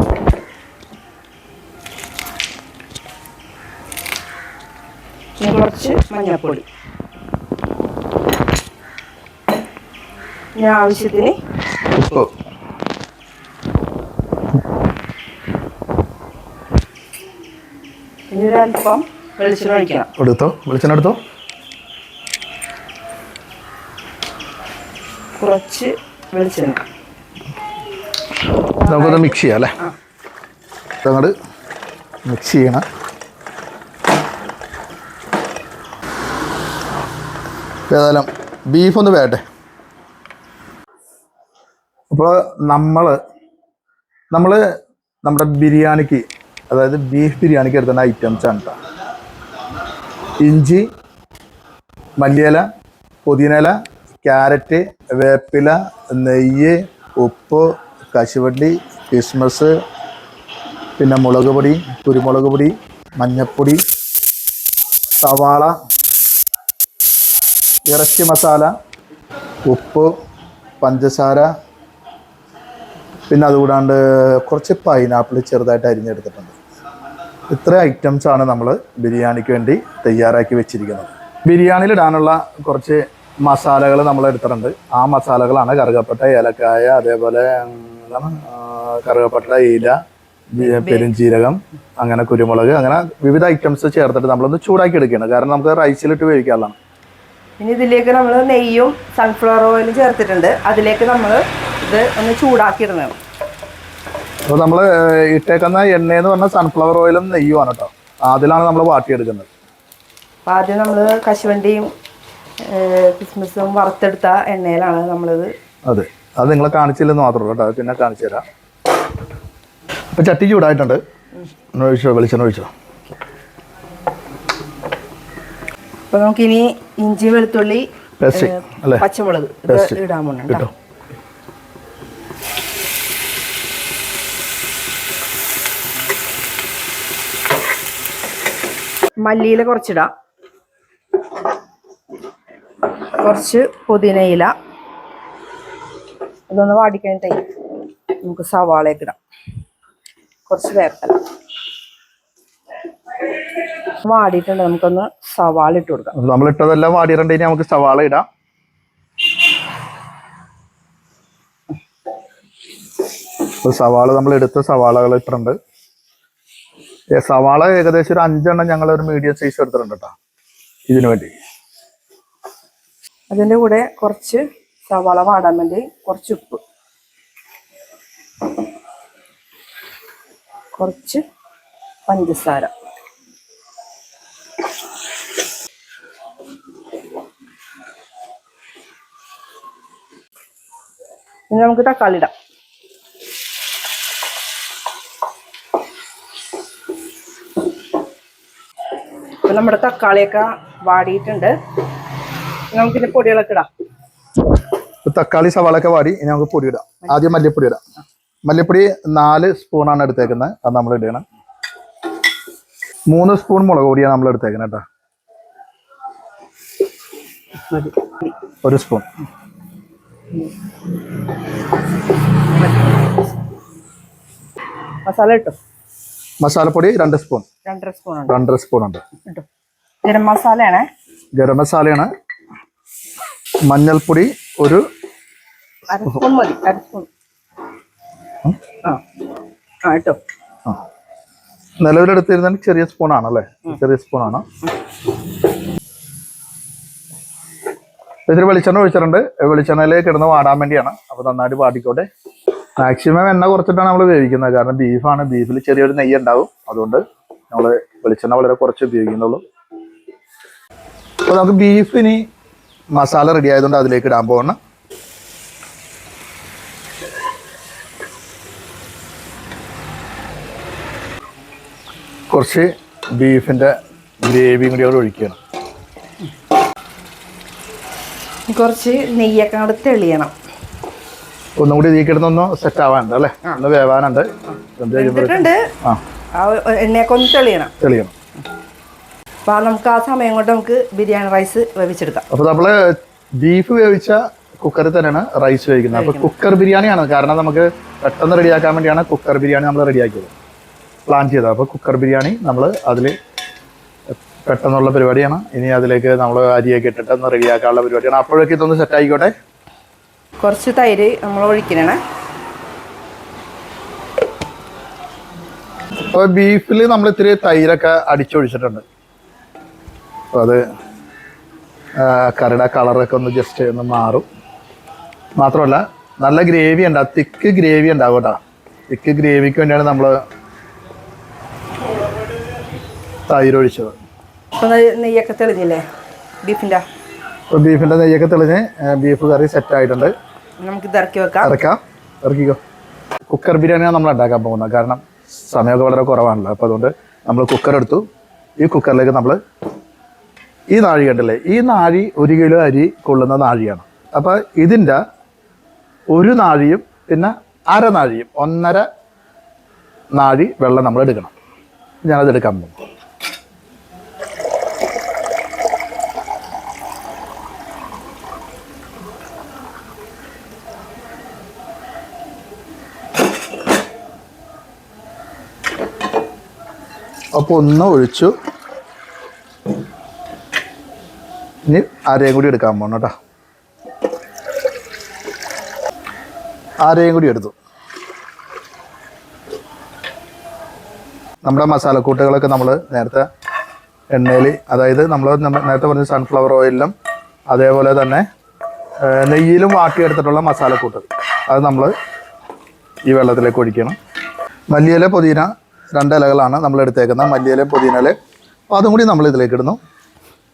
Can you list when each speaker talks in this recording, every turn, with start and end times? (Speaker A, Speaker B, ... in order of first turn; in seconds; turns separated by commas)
Speaker A: 5.4-6.6, Speaker A: 10.6-11.3, Speaker B: 11.9-12.3, Speaker A: 18.3-20.1, Speaker B: 20.2-21.2, Speaker A: 25.4-26.8, Speaker A: 28.8-29.9, Speaker B: 28.8-29.7, Speaker B: 31.0-31.3, Speaker B: 32.2-32.8, Speaker B: 37.9-39.4, Speaker B: 42.1-43.2, Speaker B: 44.3-44.6, Speaker B: 45.2-48.8, Speaker B: 50.4-50.9, Speaker B: 52.2-52.6, Speaker B: 53.2-59.7, Speaker B: 61.0-63.8, Speaker B: 65.2-65.7, Speaker B: 67.9-68.7, Speaker B: 69.7-70.1, Speaker B: 70.8-71.5, Speaker B: 73.3-76.5, Speaker B: 77.5-90.0, Speaker B: 90.5-96.8, Speaker A: 90.6-91.1, Speaker A: 97.6-103.1, Speaker B: 104.5-109.5, Speaker A: 110.5-111.9, Speaker A: 112.6-115.5, Speaker B: 115.9-118.4, Speaker B: 120.1-121.0, Speaker B: 121.7-122.7, Speaker A: 126.1-130.7, Speaker B: 128.2-129.0, Speaker B: 129.7-130.0, Speaker A: 139.2-140.1, Speaker A: 143.2-144.5, Speaker A: 146.5-147.4, Speaker A: 148.2-149.2, Speaker A: 150.5-151.2, Speaker A: 153.3-156.1, Speaker B: 156.1-158.2, Speaker B: 163.6-165.6, Speaker B: 167.1-170.1, Speaker B: 170.9-171.3, Speaker A: 173.3-176.6, Speaker A: 180.8-181.2, Speaker A: 182.1-182.7, Speaker A: 191.5-192.3, Speaker A: 199.4-201.5, Speaker A: 202.7-203.7, Speaker B: 205.0-207.8, Speaker B: 208.4-211.2, Speaker B: 213.1-214.8, Speaker A: 217.7-218.3, Speaker B: 218.6-219.1, Speaker A: 222.5-223.2, Speaker A: 225.0-225.6, Speaker B: 226.4-227.4, Speaker A: 227.7-228.3, Speaker B: 228.3-229.0, Speaker A: 230.0-230.9, Speaker B: 231.3-232.1, Speaker B: 233.7-234.8, Speaker A: 235.9-237.1, Speaker A: 239.8-240.2, Speaker B: 241.8-244.4, Speaker B: 248.3-252.1, Speaker B: 252.8-259.4, Speaker B: 261.2-262.2, Speaker B: 262.9-264.6, Speaker B: 272.3-275.4, Speaker A: 278.5-280.3, Speaker B: 281.6-286.0, Speaker A: 284.9-285.6, Speaker A: 286.4-287.7, Speaker B: 287.8-288.1, Speaker A: 289.5-292.2, Speaker B: 292.3-300.3, Speaker A: 295.9-296.3, Speaker B: 301.1-303.1, Speaker B: 304.4-309.3, Speaker A: 310.4-312.0, Speaker B: 316.1-318.8, Speaker B: 320.3-320.6, Speaker B: 322.0-324.2, Speaker B: 325.4-330.1, Speaker B: 333.3-333.9, Speaker A: 334.6-335.8, Speaker A: 336.4-336.8, Speaker B: 337.5-340.1, Speaker A: 340.6-341.5, Speaker B: 341.4-342.6, Speaker B: 343.3-348.0, Speaker B: 348.6-349.4, Speaker B: 350.7-355.0, Speaker B: 356.1-358.8, Speaker B: 360.1-361.3, Speaker B: 362.0-362.8, Speaker B: 377.3-378.3, Speaker B: 381.7-383.1, Speaker B: 386.8-387.5, Speaker B: 391.4-393.2, Speaker B: 394.1-396.9, Speaker B: 397.5-398.2, Speaker B: 399.0-401.9, Speaker B: 403.1-403.9, Speaker B: 404.7-408.1, Speaker B: 408.7-409.8